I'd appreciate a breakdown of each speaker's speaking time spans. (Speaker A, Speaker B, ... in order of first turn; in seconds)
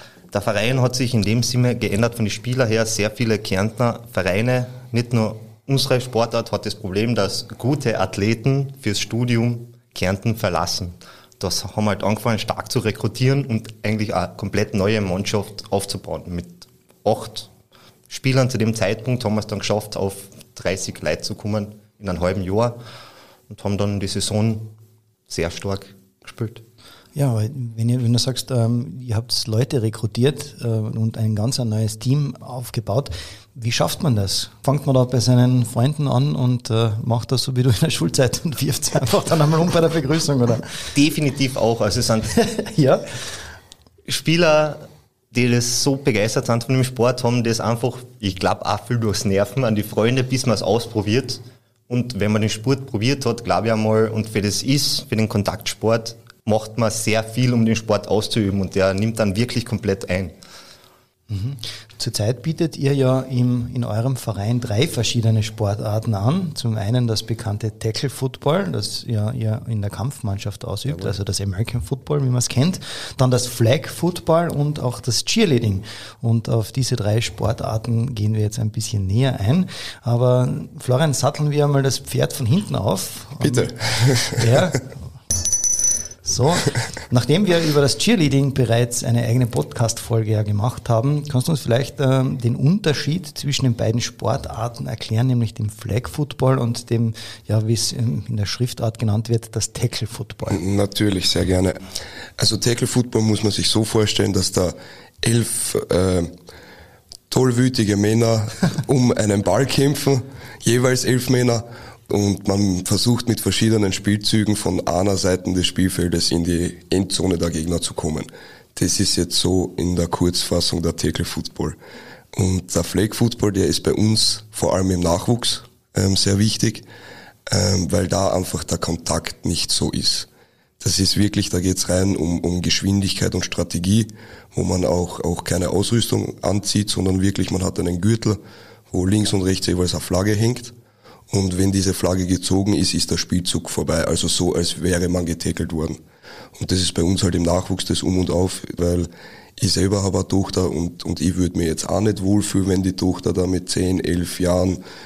Speaker A: 0.3-17.5, 18.1-22.8, 23.5-24.7, 25.3-26.6, 40.9-42.4, 44.0-60.4
Speaker B: 27.1-40.7, 42.4-43.0, 61.3-83.7, 84.3-85.0, 86.2-100.6
Speaker C: 83.4-84.7, 100.5-101.8, 102.4-106.3, 107.3-121.8, 122.3-126.8, 127.5-130.3, 130.8-140.7, 141.3-146.0, 146.5-154.8